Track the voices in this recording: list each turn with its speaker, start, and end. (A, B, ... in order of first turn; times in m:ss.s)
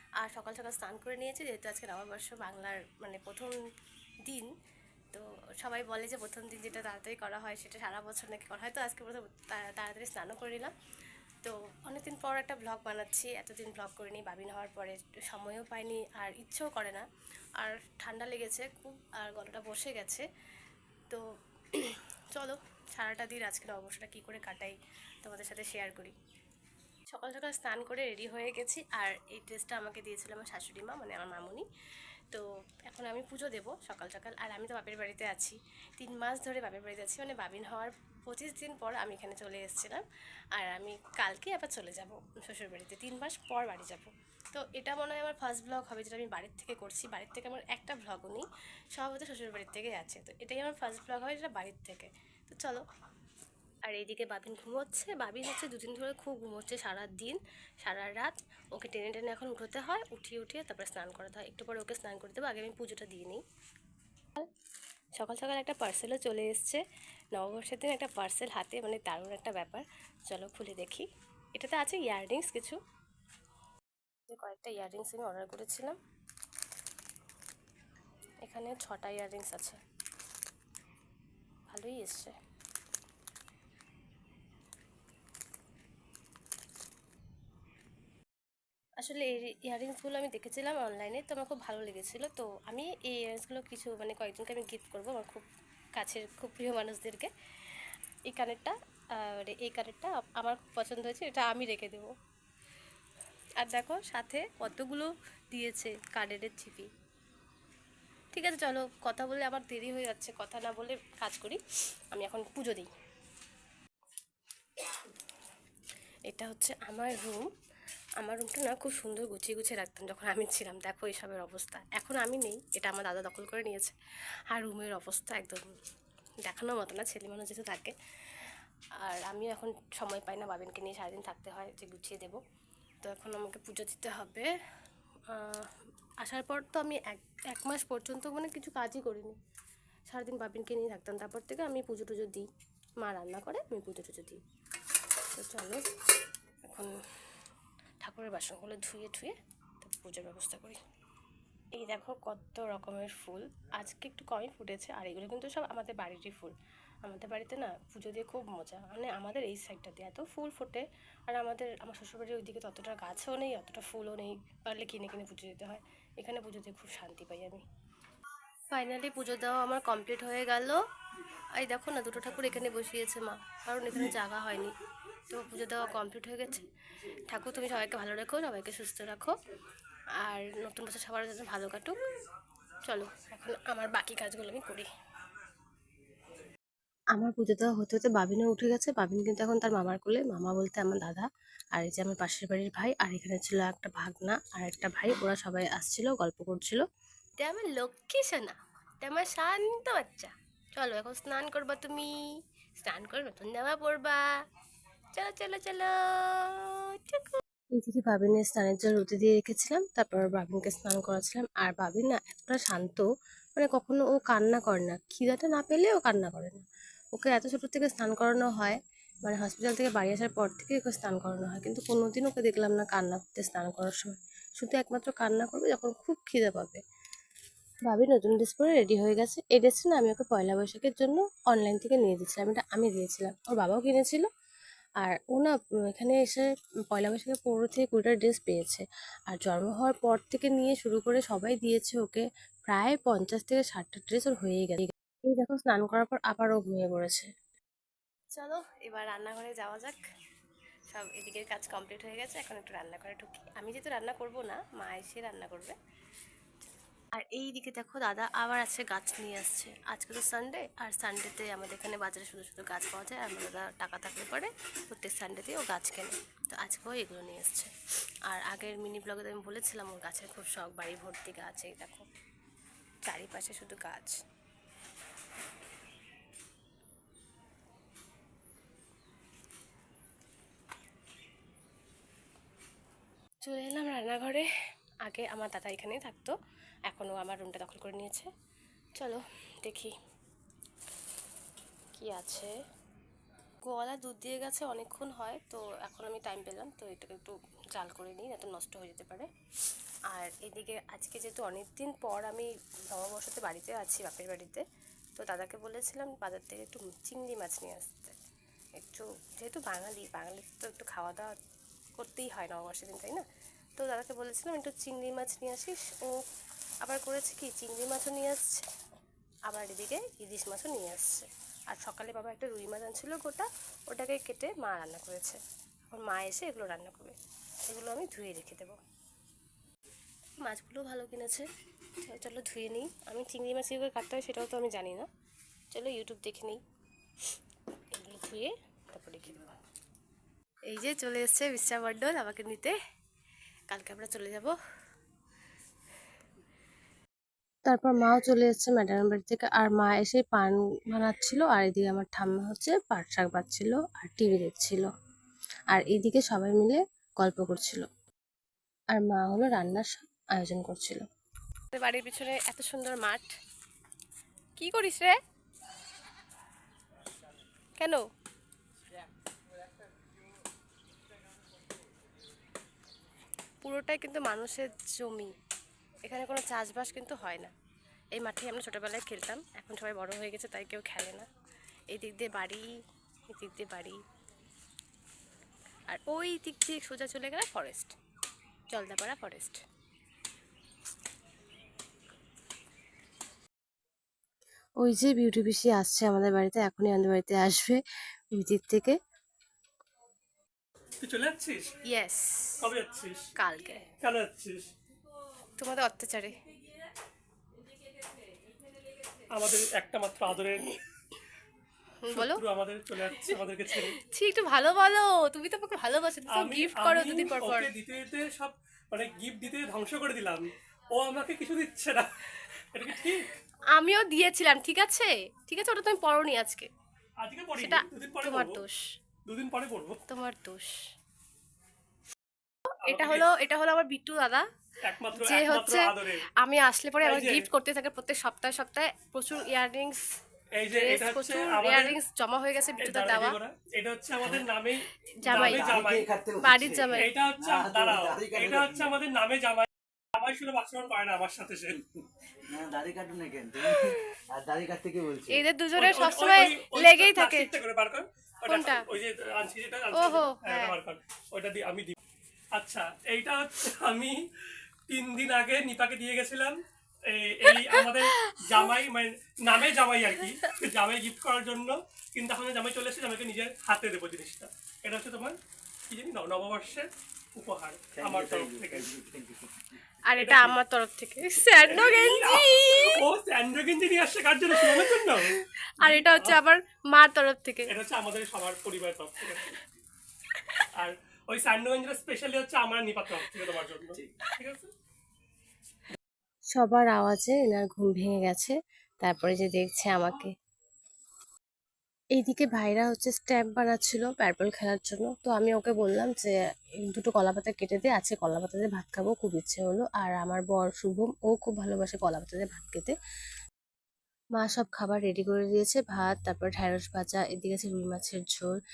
0:00.2-0:03.6 A
0:05.1-0:10.7 A
0:11.4-0:17.0 A
0:17.6-0:20.2 A
0:21.1-0:26.2 A
0:27.1-0:31.7 A
0:32.3-0:40.0 A
0:40.6-0:52.8 A
0:53.9-1:03.4 A
1:05.2-1:06.8 A
1:07.4-1:12.8 A
1:14.3-1:16.0 A
1:18.4-1:19.8 A
1:21.7-1:22.3 A
1:29.0-1:37.3 A
1:38.3-1:42.1 A
1:43.6-1:46.9 A
1:48.3-1:51.6 A
1:52.1-1:52.9 A
1:56.3-1:57.5 A
1:58.2-2:04.0 A
2:04.5-2:05.7 A
2:06.5-2:07.9 A
2:09.0-2:12.4 A
2:13.0-2:14.5 A
2:15.3-2:15.7 A
2:16.2-2:19.4 A
2:20.1-2:22.5 A
2:23.0-2:24.4 A
2:25.3-2:25.9 A
2:26.7-2:27.0 A
2:28.0-2:30.8 A
2:31.7-2:47.6 A
2:48.7-2:50.8 A
2:51.4-2:54.7 A
2:55.3-2:59.4 A
3:00.2-3:02.0 A
3:02.9-3:04.9 A
3:07.1-3:16.8 A
3:17.4-3:24.3 A
3:25.1-3:46.8 A
3:47.9-3:54.3 A
3:55.0-4:07.3 A
4:08.3-4:10.0 A
4:10.9-4:15.8 A
4:17.1-4:27.7 A
4:28.3-4:32.1 A
4:33.0-4:34.2 A
4:43.4-4:44.5 A
4:45.0-4:46.3 A
4:46.9-4:48.3 A
4:49.0-4:49.9 A
4:51.9-4:52.5 A
4:53.6-4:59.3 A
5:00.1-5:04.6 A
5:05.2-5:08.2 A
5:08.8-5:11.4 A
5:12.0-5:13.2 A
5:13.8-5:16.2 A
5:16.8-5:18.6 A
5:19.5-5:28.8 A
5:30.4-5:31.5 A
5:32.0-5:35.1 A
5:35.7-5:36.6 A
5:37.9-5:39.5 A
5:40.7-5:42.8 A
5:43.7-5:44.6 A
5:47.7-5:54.9 A
5:55.7-5:57.9 A
5:58.9-6:01.1 A
6:01.7-6:03.3 A
6:04.6-6:05.2 A
6:07.8-6:08.0 A
6:13.6-6:15.3 A
6:16.1-6:17.5 A
6:18.2-6:21.3 A
6:21.9-6:22.7 A
6:23.3-6:24.0 A
6:25.9-6:28.0 A
6:28.7-6:29.6 A
6:34.8-6:37.8 A
6:38.4-6:39.0 A
6:41.0-6:41.8 B
6:41.9-6:42.7 A
6:42.6-6:43.3 B
6:43.4-6:43.9 A
6:44.0-6:44.7 B
6:45.6-6:46.4 A
6:49.3-6:50.8 B
6:52.0-6:52.4 A
6:52.1-6:54.0 B
6:53.3-6:57.7 A
6:56.3-7:03.3 B
7:03.7-7:06.7 A
7:07.2-7:08.6 B
7:07.6-7:08.8 A
7:09.3-7:10.0 B
7:10.1-7:10.8 A
7:12.8-7:13.3 B
7:12.9-7:14.4 A
7:14.9-7:16.2 B
7:15.1-7:20.0 A
7:17.0-7:17.5 B
7:20.6-7:22.0 B
7:20.7-7:23.4 A
7:22.8-7:26.1 B
7:25.2-7:25.8 A
7:25.3-7:29.0 C
7:26.4-7:27.1 A
7:26.9-7:31.8 B
7:32.0-7:35.4 C
7:35.3-7:37.6 A
7:35.8-7:42.0 B
7:38.5-7:38.8 A
7:39.9-7:40.8 A
7:42.6-7:44.2 B
7:44.9-7:55.4 B
7:55.9-7:59.0 B
7:57.9-7:59.7 C
8:00.1-8:03.0 A
8:00.2-8:00.6 B
8:01.5-8:06.4 B
8:04.6-8:07.7 A
8:07.7-8:09.6 B
8:10.8-8:14.7 B
8:16.5-8:20.3 A
8:22.2-8:26.4 A
8:26.9-8:33.0 A
8:34.4-8:38.5 A